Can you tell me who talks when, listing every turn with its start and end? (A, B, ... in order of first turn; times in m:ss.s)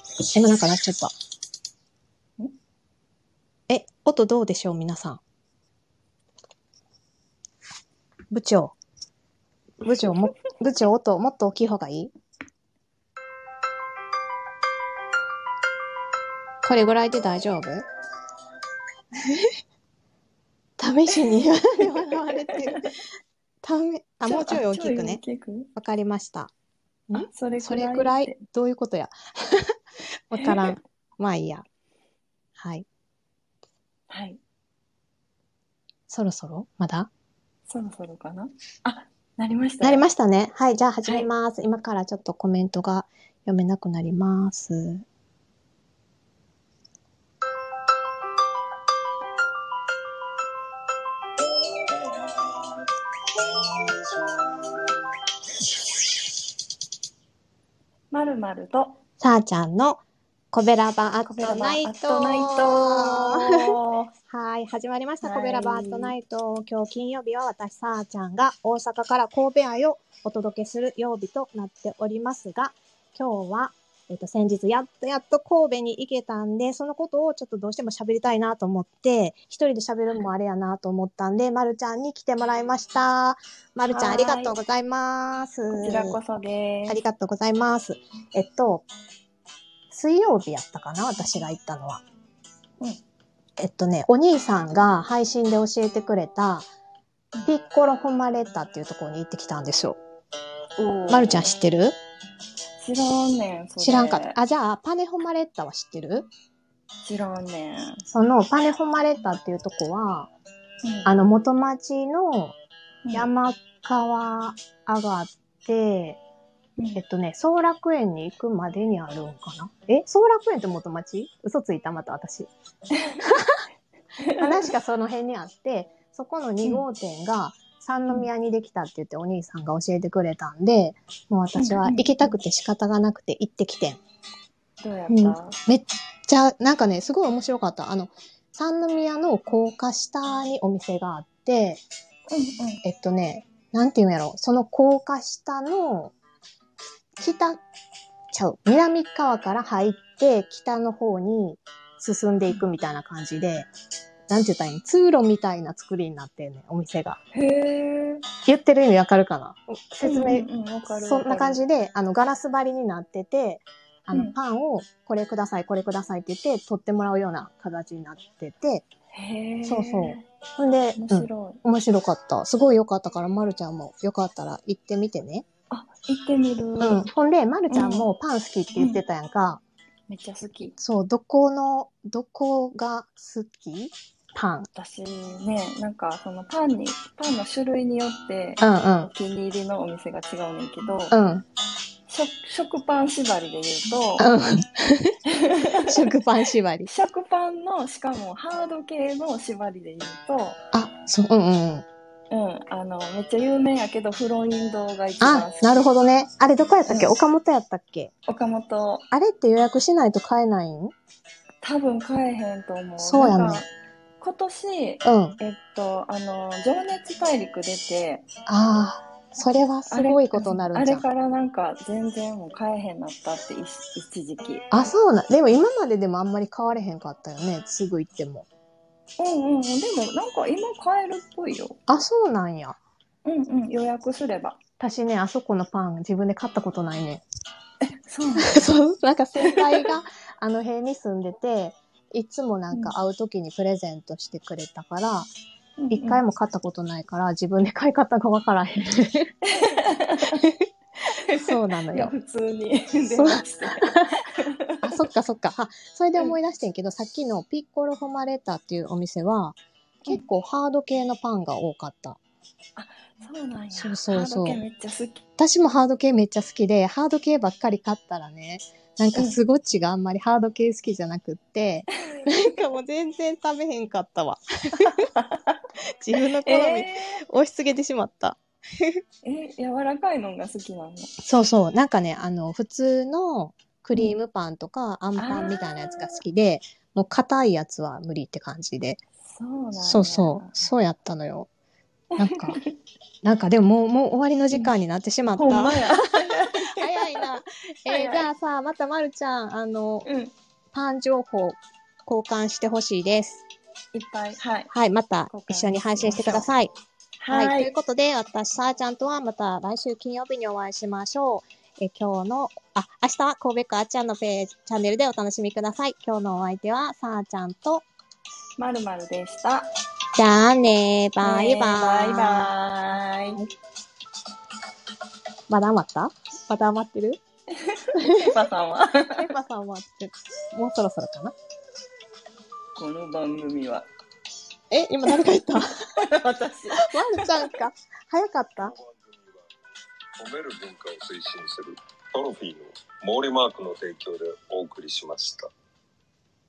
0:00.3-0:01.1 A
0:03.7-0:05.2 A
0:08.3-0:08.8 A
0:09.8-0:12.1 A
0:16.6-0:17.8 A
0:20.8-0:22.9 A
0:22.5-0:22.9 B
0:23.6-0:25.2 A
0:24.2-0:25.7 B
0:25.8-0:26.5 A
0:27.1-0:29.8 A
0:27.1-0:28.4 B
0:30.3-0:31.6 A
0:30.3-0:30.7 B
0:32.6-0:32.8 A
0:34.1-0:34.4 B
0:36.1-0:37.1 A
0:37.7-0:40.0 B
0:39.8-0:45.0 A
0:58.1-0:59.0 B
0:59.2-1:03.5 A
1:01.3-1:04.1 B
1:04.3-1:26.2 A
1:05.2-1:06.1 B
1:23.9-1:24.6 B
1:25.7-1:27.0 B
1:26.9-1:28.8 A
1:29.9-1:32.0 A
1:33.6-1:36.7 A
1:37.4-1:40.0 A
1:40.8-1:41.5 B
1:41.1-1:42.0 A
1:42.8-1:44.4 B
1:43.8-1:46.3 A
1:47.0-1:48.0 B
1:48.1-1:50.3 A
1:50.8-1:51.1 B
1:51.0-1:52.6 A
1:53.0-1:53.3 B
1:53.1-1:56.2 A
1:56.9-2:02.5 A
2:03.2-2:03.6 A
2:04.4-2:14.0 A
2:11.6-2:12.4 B
2:14.8-2:15.6 B
2:15.1-2:21.8 A
2:22.3-2:22.8 B
2:22.8-2:26.1 A
2:27.2-2:27.6 A
2:28.3-2:33.7 A
2:34.3-2:37.2 A
2:37.3-2:38.2 B
2:38.4-2:48.8 A
2:40.0-2:41.6 B
2:49.1-2:50.3 B
2:49.6-2:55.4 A
2:51.0-2:51.6 B
2:55.7-2:57.0 B
2:56.8-2:59.6 A
2:57.7-2:58.1 B
2:58.8-2:59.0 B
3:00.1-3:00.8 B
3:00.8-3:04.7 A
3:04.7-3:11.2 B
3:08.6-3:09.1 A
3:11.1-3:11.4 A
3:12.1-3:14.3 B
3:14.2-3:15.2 A
3:15.3-3:16.1 B
3:15.9-3:16.9 A
3:16.8-3:20.6 B
3:20.7-3:21.8 A
3:22.3-3:25.8 B
3:25.2-3:28.1 A
3:26.8-3:27.1 B
3:28.3-3:29.0 B
3:29.1-3:30.9 A
3:31.6-3:33.7 B
3:33.0-3:33.6 A
3:34.2-3:38.2 B
3:35.0-3:35.4 A
3:38.5-3:41.0 A
3:39.9-3:44.6 B
3:44.7-3:48.5 A
3:49.2-3:51.8 B
3:51.9-3:52.8 A
3:53.2-3:54.6 B
3:54.8-3:57.2 A
3:57.9-3:58.6 B
3:58.4-4:05.3 A
3:59.4-3:59.8 B
4:05.8-4:06.2 B
4:05.9-4:09.3 A
4:09.5-4:10.4 B
4:11.0-4:15.0 B
4:11.4-4:12.1 A
4:13.0-4:14.1 A
4:14.8-4:22.2 A
4:22.8-4:25.2 B
4:23.7-4:24.6 A
4:25.4-4:35.0 A
4:34.8-4:35.6 B
4:36.0-4:39.0 A
4:36.4-4:37.2 B
4:39.2-4:41.1 B
4:41.2-4:49.0 A
4:45.2-4:46.1 B
4:49.2-4:50.5 B
4:49.8-4:51.5 A
4:52.2-4:52.6 A
4:52.3-4:52.7 B
4:53.2-5:00.0 A
4:55.3-4:57.2 B
4:57.9-4:58.3 B
5:00.0-5:00.3 B
5:00.7-5:03.4 A
5:03.9-5:04.7 B
5:04.7-5:06.7 A
5:05.3-5:06.5 B
5:07.2-5:07.7 B
5:07.3-5:17.8 A
5:18.6-5:19.7 B
5:20.2-5:22.5 A
5:21.2-5:23.4 B
5:25.5-5:27.2 A
5:27.6-5:29.3 B
5:28.0-5:28.3 A
5:29.2-5:31.3 A
5:32.7-5:33.9 B
5:34.7-5:35.8 A
5:36.0-5:37.4 B
5:36.8-5:38.7 A
5:38.7-5:39.4 C
5:40.2-5:45.5 C